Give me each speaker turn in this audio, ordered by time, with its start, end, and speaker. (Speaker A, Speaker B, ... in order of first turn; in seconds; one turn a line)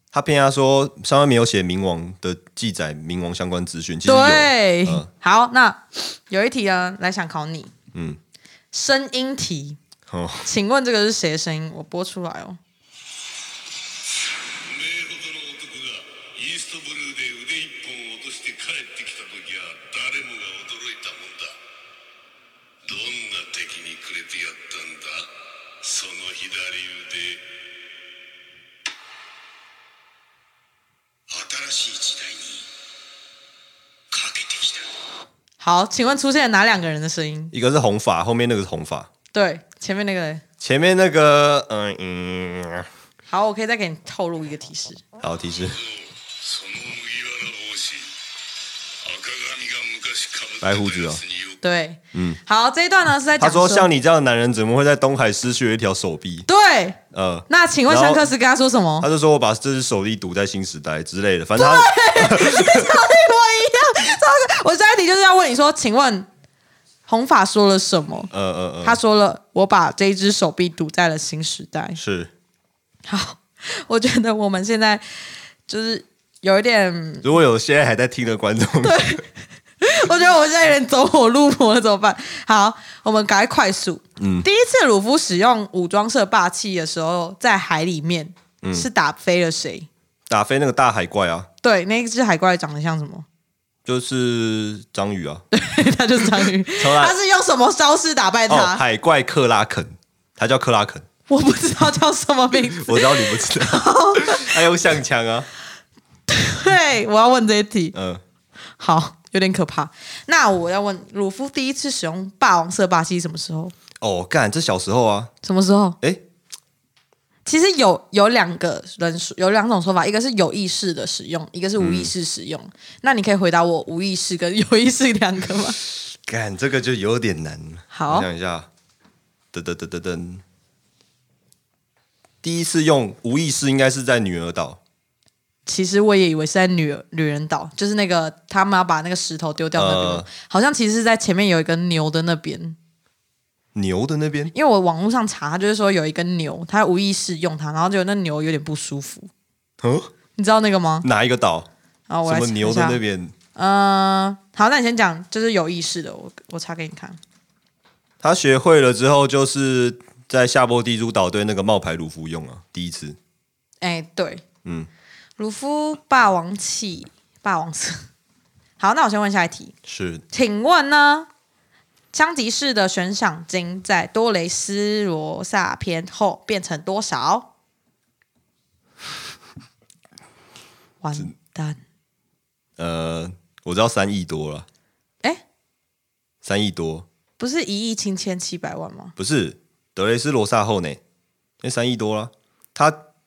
Speaker A: 0.1-5.1
Speaker B: 4.0-7.7
Speaker A: 7.9-8.2
Speaker B: 8.7-9.8
Speaker A: 10.1-10.5
Speaker B: 10.4-12.6
Speaker C: 14.5-21.6
Speaker C: 22.9-27.5
Speaker C: 31.3-32.7
Speaker C: 34.1-34.8
Speaker B: 35.6-37.5
Speaker A: 37.5-39.1
Speaker B: 39.3-40.4
Speaker A: 40.6-42.9
Speaker B: 43.3-45.0
Speaker A: 45.2-45.8
Speaker C: 45.9-48.1
Speaker C: 49.0-51.6
Speaker A: 50.6-51.2
Speaker B: 51.6-53.9
Speaker A: 52.1-52.4
Speaker A: 53.4-56.5
Speaker B: 56.5-59.1
Speaker A: 57.1-58.3
Speaker A: 59.0-63.0
Speaker B: 61.6-66.3
Speaker B: 67.1-68.3
Speaker A: 68.3-69.0
Speaker B: 68.8-72.0
Speaker A: 72.0-72.3
Speaker B: 73.1-77.3
Speaker A: 77.2-79.2
Speaker B: 78.8-79.2
Speaker B: 79.8-89.9
Speaker A: 84.2-84.5
Speaker A: 88.6-88.9
Speaker A: 90.3-91.5
Speaker B: 91.6-93.2
Speaker A: 93.8-95.4
Speaker B: 95.5-98.8
Speaker A: 96.4-97.2
Speaker A: 98.5-101.0
Speaker B: 101.3-104.6
Speaker A: 102.7-105.5
Speaker B: 106.3-107.9
Speaker A: 107.9-108.2
Speaker B: 108.8-113.7
Speaker A: 114.0-115.3
Speaker B: 115.4-116.0
Speaker B: 117.5-125.8
Speaker A: 121.8-122.1
Speaker A: 126.1-128.7
Speaker B: 127.9-128.3
Speaker A: 129.5-130.4
Speaker A: 132.4-134.8
Speaker B: 135.7-142.8
Speaker A: 139.8-140.3
Speaker A: 143.7-144.5
Speaker B: 144.5-149.3
Speaker A: 149.8-150.1
Speaker B: 150.3-151.1
Speaker A: 151.0-151.7
Speaker B: 152.1-153.0
Speaker A: 152.2-153.3
Speaker B: 153.5-157.2
Speaker A: 158.2-163.2
Speaker B: 163.8-164.4
Speaker B: 165.4-168.1
Speaker B: 168.8-169.7
Speaker A: 169.8-170.2
Speaker B: 170.3-171.3
Speaker B: 172.1-177.5
Speaker B: 181.0-181.8
Speaker A: 182.8-184.7
Speaker A: 186.4-187.1
Speaker B: 187.4-189.1
Speaker A: 189.2-191.0
Speaker A: 191.6-193.0